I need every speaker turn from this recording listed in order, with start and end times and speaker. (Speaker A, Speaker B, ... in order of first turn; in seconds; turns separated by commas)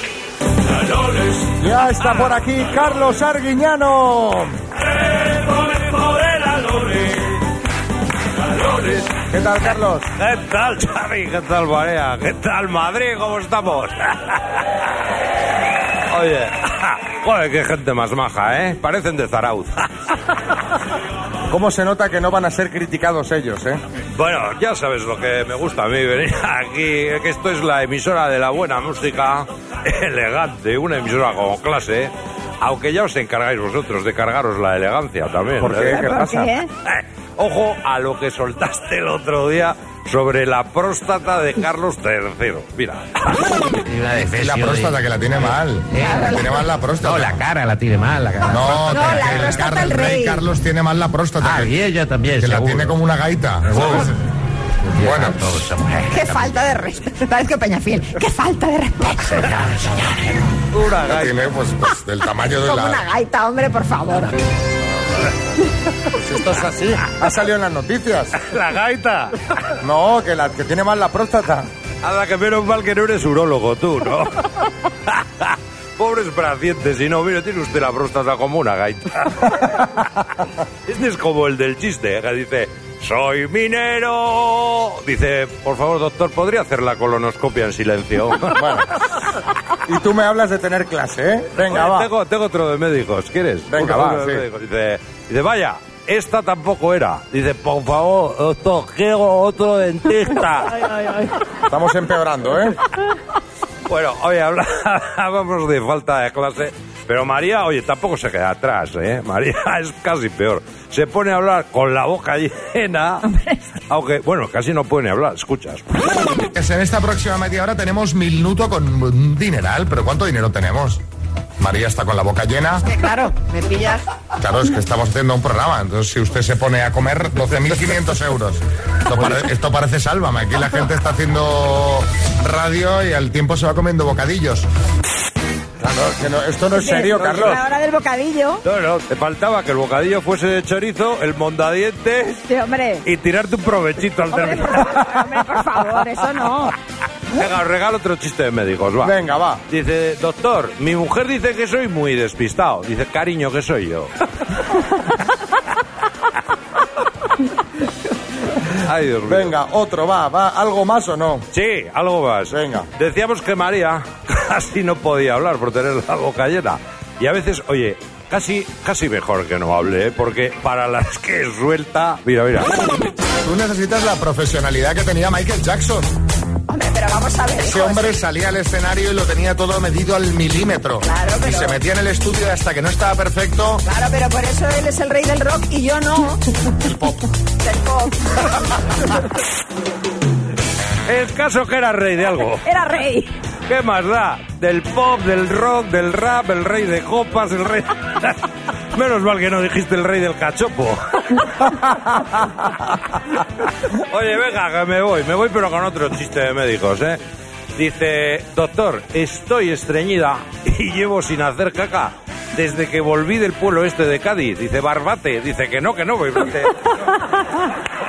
Speaker A: 1.0-1.5, Speaker B: 1.6-4.5, Speaker A: 5.0-7.5, Speaker A: 8.4-14.7, Speaker B: 9.3-10.1, Speaker A: 16.1-20.4, Speaker B: 21.5-23.8, Speaker A: 24.1-36.1, Speaker B: 35.6-36.6, Speaker C: 35.9-36.7, Speaker A: 36.8-43.6, Speaker D: 43.9-45.0, Speaker E: 44.3-47.5, Speaker D: 45.9-46.5, Speaker C: 46.0-46.4, Speaker D: 47.0-49.8, Speaker E: 48.4-51.8, Speaker C: 48.9-50.4, Speaker D: 51.4-53.0, Speaker E: 52.4-54.1, Speaker D: 53.7-54.1, Speaker D: 54.9-56.7, Speaker E: 55.0-55.4, Speaker C: 56.1-60.2, Speaker D: 59.4-60.4, Speaker A: 60.7-61.5, Speaker E: 61.1-63.0, Speaker C: 62.6-64.4, Speaker B: 66.1-68.3, Speaker A: 68.3-69.7, Speaker B: 70.0-71.7, Speaker A: 72.0-88.8, Speaker B: 88.5-88.8, Speaker B: 89.9-92.1, Speaker A: 91.6-101.3, Speaker B: 93.7-94.4, Speaker B: 101.7-102.8, Speaker A: 103.9-116.0, Speaker E: 116.5-121.0, Speaker E: 121.6-122.9, Speaker C: 122.9-124.1, Speaker E: 124.4-134.7, Speaker B: 135.8-137.7, Speaker E: 136.3-136.8, Speaker C: 136.7-138.6, Speaker A: 138.7-142.5, Speaker C: 142.5-143.1, Speaker A: 143.0-146.0, Speaker C: 144.3-146.7, Speaker A: 147.3-149.2, Speaker B: 149.0-149.6, Speaker A: 149.7-154.3, Speaker A: 158.6-159.5, Speaker B: 159.3-161.4, Speaker A: 161.5-172.8, Speaker B: 162.5-162.9, Speaker E: 173.4-176.1, Speaker C: 176.7-178.1, Speaker E: 177.6-183.9, Speaker C: 181.0-181.7, Speaker C: 183.9-186.6, Speaker E: 186.7-187.3, Speaker C: 187.6-188.6, Speaker A: 191.1-192.7, Speaker C: 192.7-193.3, Speaker A: 193.7-202.9, Speaker A: 203.6-207.2, Speaker A: 207.8-216.9